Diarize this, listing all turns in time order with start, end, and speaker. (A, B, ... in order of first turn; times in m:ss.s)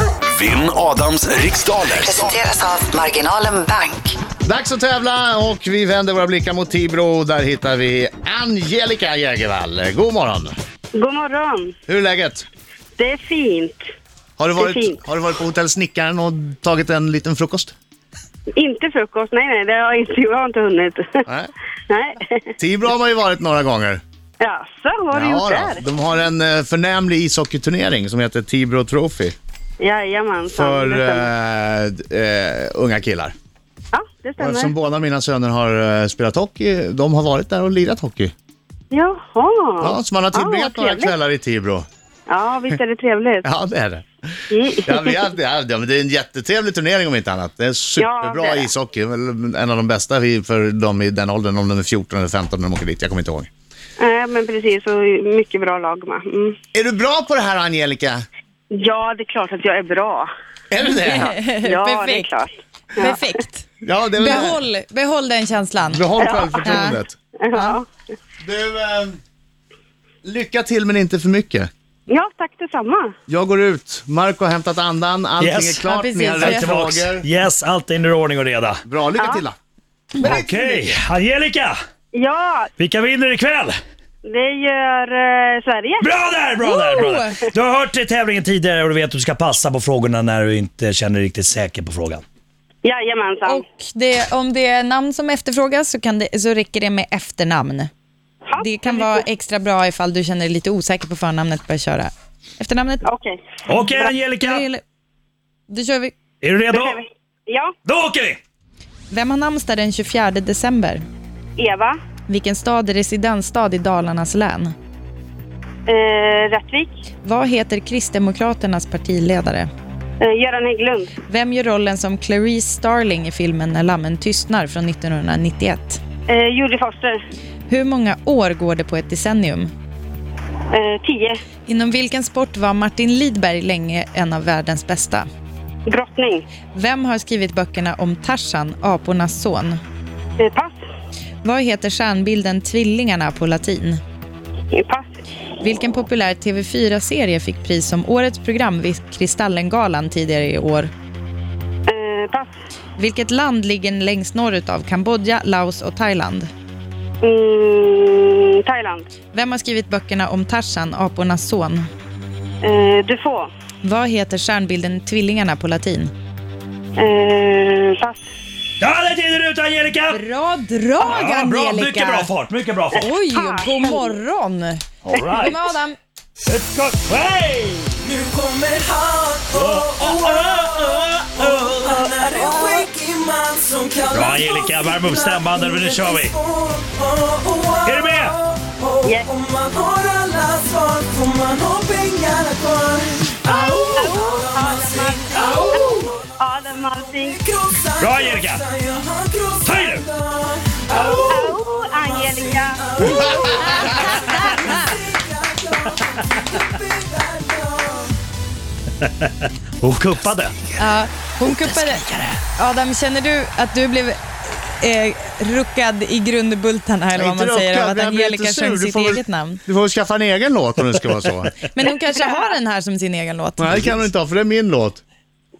0:00.3-0:02.4 A
0:02.0-0:04.2 B
0:04.4-0:10.6 C
0:11.0-0:11.8 D
0:11.9-0:12.5 C
0:13.0-0:13.8 D
0:14.4-0:17.7 C
0:14.6-0:15.0 D
0:18.6-0:21.2 D
0:21.3-0:21.5 C
0:21.9-0:22.5 D
0:22.6-0:24.0 C
0:24.4-0:25.8 D
0:25.1-0:29.4 C
0:29.8-0:31.3 D
0:30.5-0:33.3 C
0:33.9-0:34.7 D
0:34.4-0:38.3 C
0:38.9-0:41.1 D
0:39.8-0:41.9 C
0:42.3-0:43.5 D
0:43.4-0:53.5 C
0:44.5-0:45.2 D
0:48.0-0:48.7 D
0:54.0-0:56.6 D
0:56.7-0:58.2 C
0:58.7-1:00.3 D
1:00.7-1:01.4 C
1:00.9-1:02.3 E
1:01.6-1:03.2 D
1:03.0-1:03.7 E
1:03.8-1:04.6 C
1:04.2-1:06.1 E
1:05.9-1:07.1 C
1:06.2-1:06.9 D
1:06.6-1:07.0 E
1:07.4-1:07.9 D
1:08.4-1:09.2 C
1:10.2-1:11.7 C
1:12.1-1:13.1 D
1:13.3-1:17.3 C
1:15.4-1:15.8 F
1:15.9-1:16.7 E
1:16.4-1:18.8 F
1:18.9-1:19.6 C
1:20.2-1:21.8 F
1:20.2-1:20.6 C
1:22.1-1:22.7 D
1:22.8-1:23.8 F
1:24.2-1:26.1 D
1:26.0-1:32.2 F
1:26.6-1:27.4 E
1:32.8-1:33.6 D
1:33.5-1:37.9 E
1:38.5-1:39.2 D
1:38.6-1:43.1 E
1:43.0-1:44.2 D
1:43.7-1:44.7 F
1:43.7-1:44.8 E
1:45.7-1:46.1 E
1:46.4-1:47.0 F
1:46.7-1:47.7 D
1:47.9-1:48.4 F
1:49.1-1:51.0 E
1:51.6-1:52.0 D
1:52.3-1:54.7 E
1:55.9-1:57.0 D
1:57.2-1:59.7 E
2:00.2-2:01.1 D
2:01.3-2:06.0 E
2:06.3-2:07.2 D
2:07.7-2:09.7 E
2:10.7-2:11.4 D
2:11.7-2:15.3 E
2:15.9-2:16.5 D
2:16.7-2:19.8 E
2:20.4-2:20.7 D
2:21.4-2:24.0 E
2:24.7-2:25.1 D
2:25.6-2:30.9 E
2:31.9-2:32.5 D
2:33.0-2:36.5 E
2:37.2-2:39.1 D
2:39.3-2:41.9 E
2:42.6-2:43.5 D
2:43.8-2:46.1 E
2:47.0-2:48.2 D
2:48.8-2:50.2 F
2:50.1-2:52.3 E
2:51.0-2:53.0 F
2:53.0-2:56.0 E
2:53.0-2:54.0 D
2:55.1-2:55.5 F
2:56.5-2:58.0 F
2:58.0-3:16.3 G
2:59.5-3:01.8 F
3:02.0-3:02.8 D
3:04.1-3:06.4 F
3:07.8-3:08.4 F
3:09.0-3:09.3 D
3:13.5-3:17.4 D
3:17.0-3:28.1 G
3:18.0-3:18.7 F
3:19.6-3:20.0 F
3:20.9-3:23.7 D
3:23.0-3:23.9 C
3:23.4-3:24.9 E
3:29.0-3:30.7 F
3:30.8-3:32.0 E
3:32.0-3:32.4 F
3:32.6-3:39.6 E
3:37.2-3:41.6 C
3:41.7-3:43.9 E
3:43.6-3:45.0 C